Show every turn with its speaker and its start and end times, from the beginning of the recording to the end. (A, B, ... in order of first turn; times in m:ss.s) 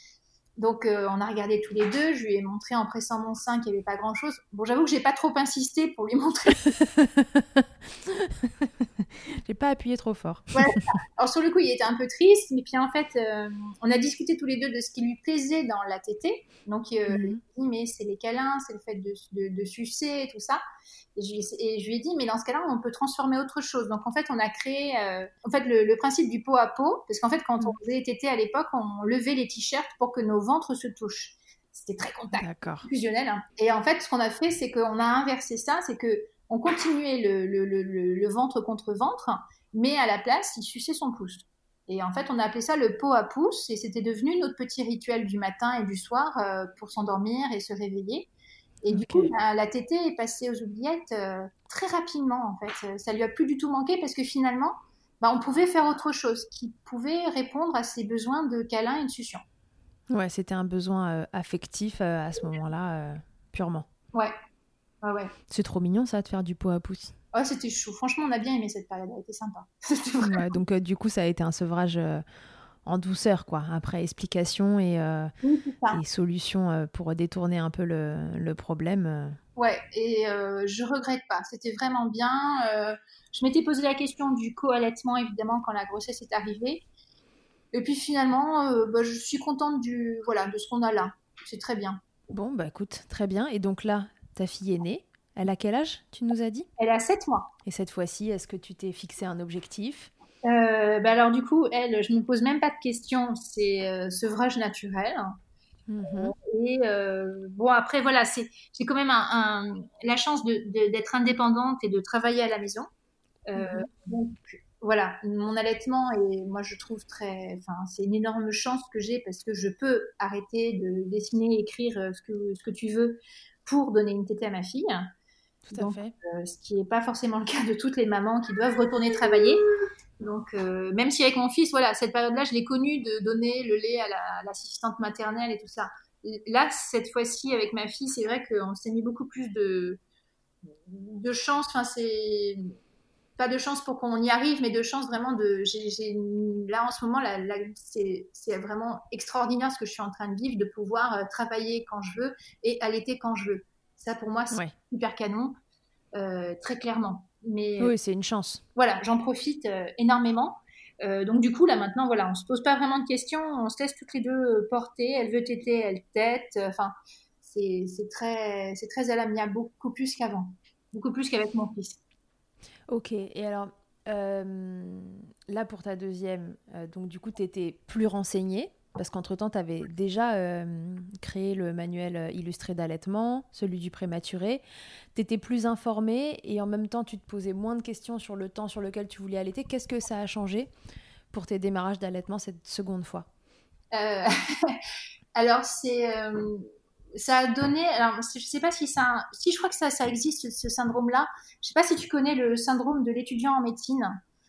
0:00.6-0:06.7 A
0:06.8-0:10.8 B
0:10.5-0:20.6 A
0:17.1-0:17.4 B
0:21.2-0:48.3 A
0:32.4-0:32.9 B
0:48.8-0:59.4 A
0:48.9-0:49.3 B
1:00.1-1:03.8 B
1:05.0-1:05.3 A
1:05.5-1:07.2 B
1:07.3-1:10.5 A
1:10.2-1:12.2 B
1:12.8-1:15.3 B
1:15.4-1:16.0 A
1:15.9-1:19.4 B
1:19.6-1:26.8 A
1:27.7-1:32.0 A
1:32.3-1:36.7 B
1:36.8-1:37.5 A
1:37.6-1:40.1 B
1:40.4-1:45.3 A
1:45.9-1:46.3 B
1:46.1-1:52.9 A
1:53.5-2:05.1 A
1:53.6-1:53.9 B
2:05.7-2:06.1 B
2:05.7-2:09.6 A
2:10.2-2:20.0 A
2:20.8-2:22.7 A
2:23.4-2:35.6 A
2:36.1-2:37.9 A
2:37.8-2:38.6 B
2:38.8-2:52.0 A
2:52.9-3:04.6 B
3:05.1-3:10.7 B
3:11.3-3:13.3 B
3:13.9-3:14.8 A
3:15.3-3:24.2 A